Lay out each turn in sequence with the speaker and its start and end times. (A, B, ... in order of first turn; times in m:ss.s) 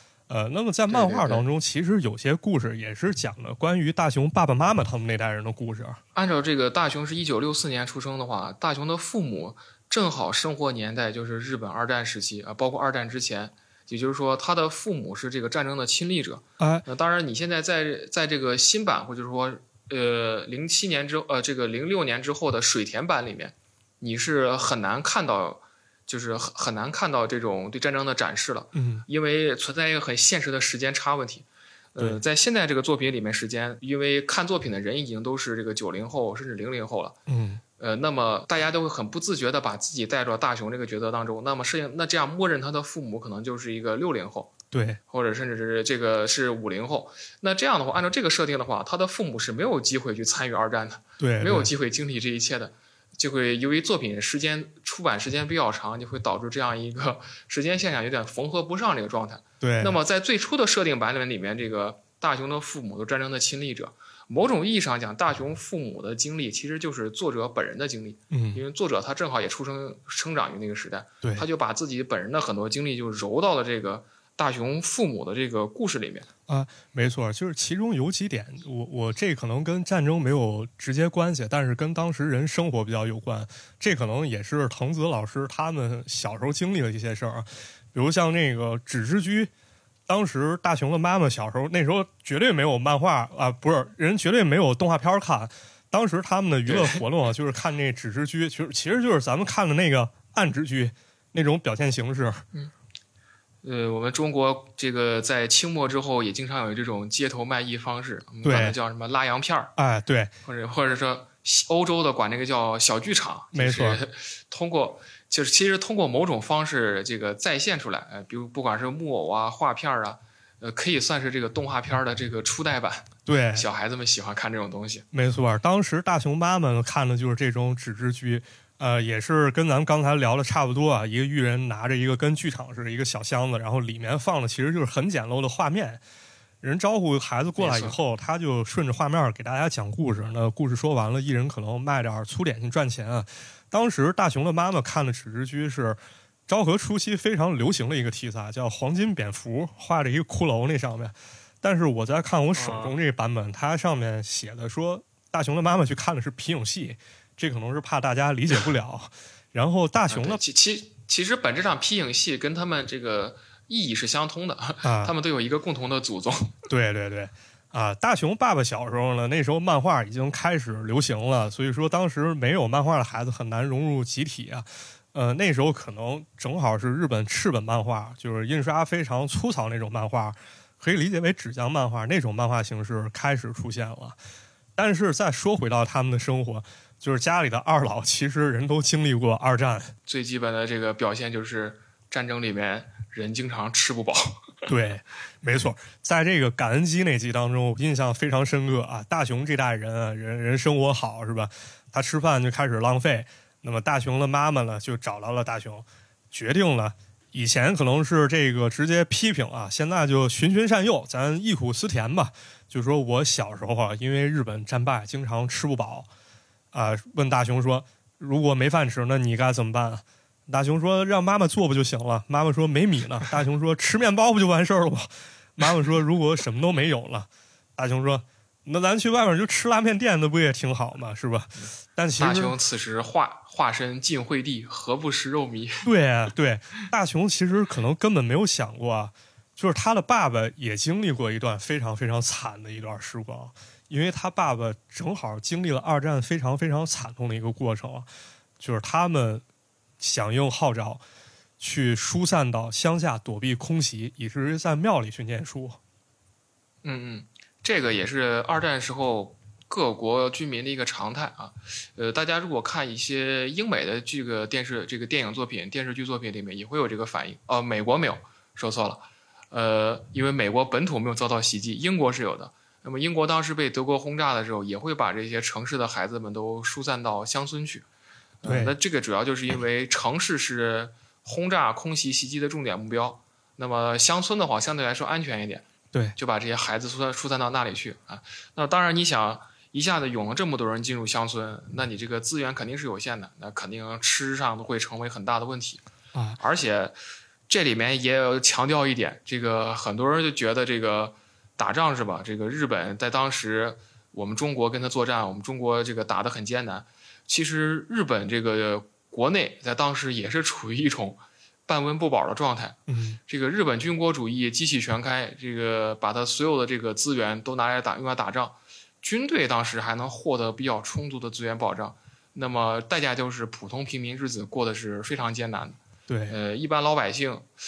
0:00.3-0:06.0 A
0:00.9-0:01.4 B
0:06.1-0:37.2 B
0:16.6-0:16.8 A
0:28.7-0:29.0 A
0:37.3-0:37.6 A
0:37.8-0:44.5 B
0:44.7-0:45.0 A
0:45.1-1:16.3 B
0:51.2-0:51.7 A
0:59.6-1:00.0 A
1:08.3-1:08.6 A
1:16.5-1:29.5 A
1:30.1-1:42.4 A
1:36.6-1:37.0 B
1:43.6-1:49.7 B
1:48.4-1:48.8 A
1:49.8-1:50.3 A
1:50.4-2:05.0 B
1:53.5-1:54.0 A
2:03.2-2:03.6 A
2:05.1-2:16.0 A
2:16.6-2:40.4 A
2:17.6-2:18.0 B
2:32.5-2:32.9 B
2:40.1-2:46.6 B
2:44.8-2:45.1 A
2:46.7-3:04.2 A
3:04.8-3:09.9 A
3:10.1-3:14.7 B
3:14.7-3:36.1 A
3:36.7-3:52.5 A
3:51.6-3:55.8 B
3:55.8-4:08.1 A
4:08.6-4:09.4 A
4:10.0-4:11.0 A
4:11.6-4:15.8 A
4:16.8-4:37.8 B
4:38.4-4:55.8 B
4:38.4-4:38.7 A
4:56.1-4:56.4 A
4:56.4-4:57.0 B
4:57.5-5:25.8 B
5:12.9-5:13.2 A
5:26.1-5:26.4 A
5:26.3-5:27.5 B